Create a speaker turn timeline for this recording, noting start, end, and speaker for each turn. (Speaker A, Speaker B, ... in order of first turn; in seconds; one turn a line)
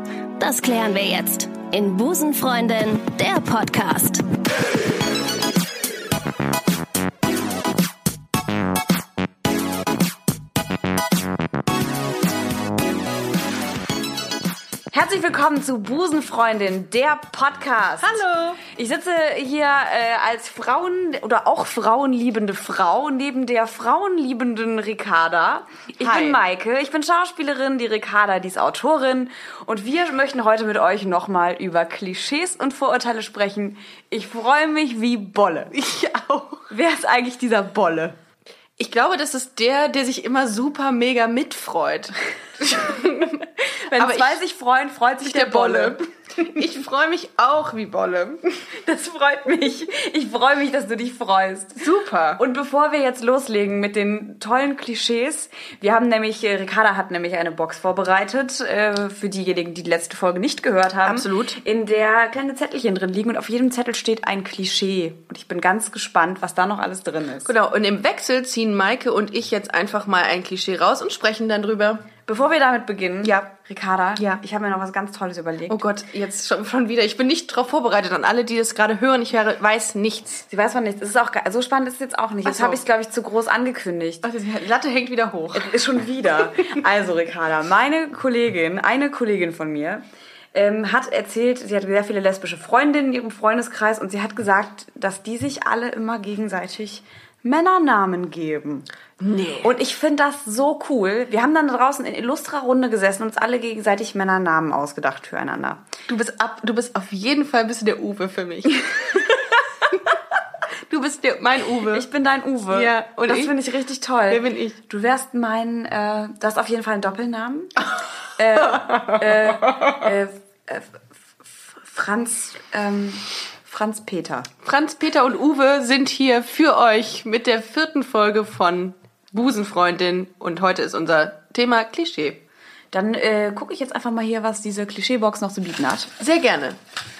Speaker A: 0.4-4.2
Speaker B: 14.9-35.7
Speaker C: 18.0-18.6
Speaker C: 26.0-26.4
Speaker C: 35.7-36.7
Speaker B: 36.7-38.2
Speaker C: 38.8-44.4
Speaker B: 43.6-46.1
Speaker C: 45.2-48.4
Speaker B: 48.7-51.8
Speaker C: 51.8-52.4
Speaker B: 52.4-67.5
Speaker C: 61.0-61.6
Speaker C: 67.4-72.1
Speaker B: 72.2-75.8
Speaker C: 75.7-80.4
Speaker B: 80.5-84.2
Speaker C: 82.4-82.8
Speaker C: 84.2-86.8
Speaker B: 85.5-98.9
Speaker C: 99.2-99.7
Speaker B: 99.6-105.9
Speaker C: 106.1-109.3
Speaker C: 110.9-112.1
Speaker B: 111.9-124.5
Speaker C: 112.7-113.6
Speaker C: 114.3-114.8
Speaker C: 118.6-119.9
Speaker C: 124.6-132.4
Speaker B: 132.9-136.1
Speaker C: 136.2-136.8